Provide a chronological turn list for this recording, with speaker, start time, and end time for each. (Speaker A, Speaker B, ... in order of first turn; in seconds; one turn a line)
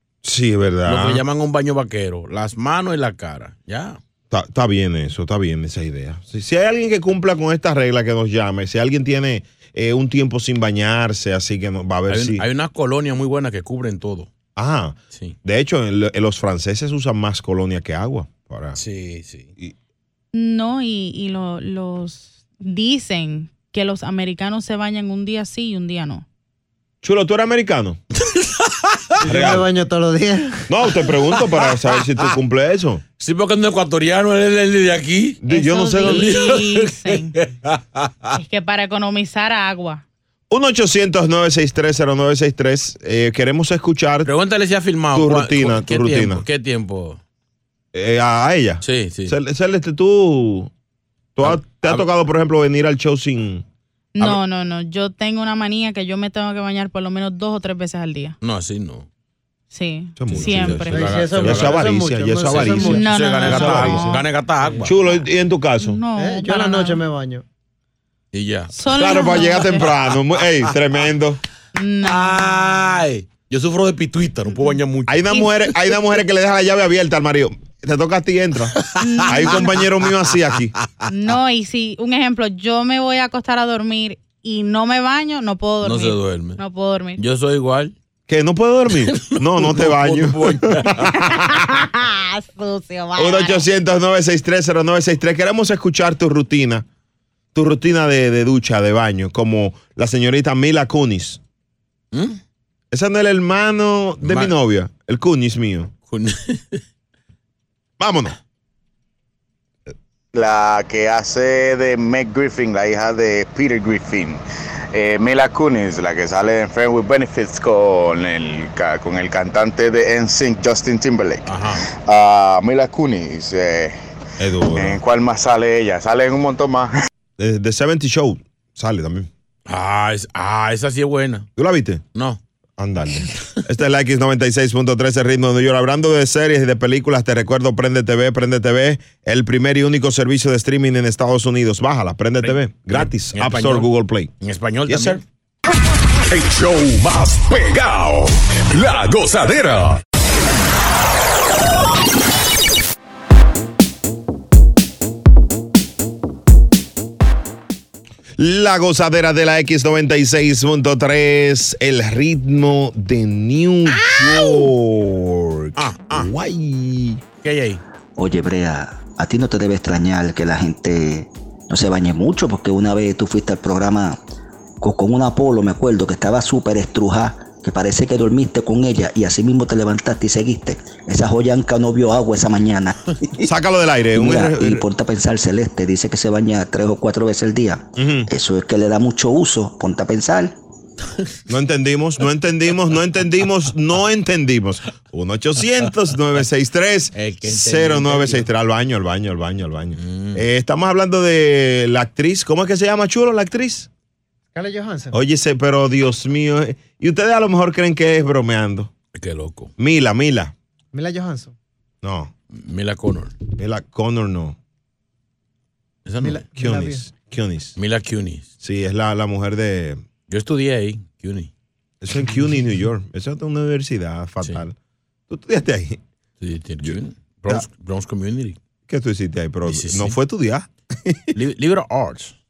Speaker A: 0.2-1.2
Speaker B: 0.9-4.0
Speaker A: 4.3-12.4
Speaker B: 12.1-14.3
Speaker A: 14.6-18.8
Speaker B: 18.8-19.5
Speaker C: 20.3-26.2
Speaker A: 27.0-28.0
Speaker B: 28.3-29.1
Speaker D: 29.2-31.2
Speaker A: 29.2-29.7
Speaker A: 30.7-33.0
Speaker B: 33.2-35.4
Speaker A: 35.4-36.4
Speaker C: 35.5-37.4
Speaker B: 36.0-38.1
Speaker C: 38.3-40.0
Speaker A: 40.5-44.3
Speaker B: 44.2-47.2
Speaker A: 45.1-46.5
Speaker A: 47.9-50.7
Speaker B: 48.8-49.4
Speaker A: 51.4-53.6
Speaker B: 51.4-52.1
Speaker C: 54.1-58.4
Speaker B: 58.4-59.1
Speaker C: 59.7-61.2
Speaker A: 60.2-64.3
Speaker B: 60.3-61.9
Speaker D: 60.9-63.1
Speaker B: 62.4-64.9
Speaker C: 62.6-64.2
Speaker D: 64.6-64.9
Speaker A: 64.8-66.0
Speaker C: 65.8-67.0
Speaker D: 66.1-67.4
Speaker B: 68.3-68.7
Speaker C: 68.7-69.9
Speaker A: 68.8-71.4
Speaker C: 71.8-72.5
Speaker B: 72.0-75.5
Speaker A: 75.1-80.7
Speaker B: 78.9-79.3
Speaker C: 79.0-79.8
Speaker C: 81.1-87.2
Speaker B: 85.8-86.6
Speaker B: 87.2-87.9
Speaker A: 88.3-91.7
Speaker B: 89.1-91.2
Speaker C: 91.2-93.6
Speaker A: 93.2-96.9
Speaker A: 97.5-101.4
Speaker B: 102.1-102.4
Speaker A: 102.9-105.9
Speaker B: 104.2-104.5
Speaker B: 106.1-106.8
Speaker A: 108.0-108.4
Speaker E: 110.3-114.4
Speaker E: 114.9-124.0
Speaker B: 121.5-121.8
Speaker A: 124.4-125.0
Speaker E: 124.8-126.9
Speaker A: 127.4-129.3
Speaker B: 129.7-131.5
Speaker A: 131.6-132.0
Speaker B: 132.1-132.4
Speaker A: 132.8-144.3
Speaker B: 142.4-145.2
Speaker A: 144.9-145.2
Speaker F: 146.3-150.0
Speaker A: 158.4-167.2
Speaker B: 165.8-166.3
Speaker B: 167.4-167.8
Speaker G: 168.2-174.2
Speaker G: 174.8-183.5
Speaker A: 183.4-184.8
Speaker G: 184.2-190.6
Speaker A: 188.0-188.3
Speaker A: 191.5-203.9
Speaker B: 197.1-198.5
Speaker B: 200.0-200.4
Speaker D: 204.5-205.2
Speaker A: 205.1-208.9
Speaker B: 209.1-209.7
Speaker A: 209.8-210.5
Speaker D: 210.9-211.6
Speaker A: 212.0-212.3
Speaker B: 212.5-213.4
Speaker A: 213.6-214.6
Speaker B: 216.1-216.4
Speaker D: 216.2-217.1
Speaker A: 216.6-217.8
Speaker B: 217.8-218.5
Speaker A: 218.6-220.0
Speaker B: 220.3-221.5
Speaker A: 222.0-224.8
Speaker A: 225.3-226.0
Speaker B: 226.4-228.6
Speaker A: 226.8-227.7
Speaker A: 228.9-231.4
Speaker B: 229.7-230.2
Speaker B: 231.3-232.4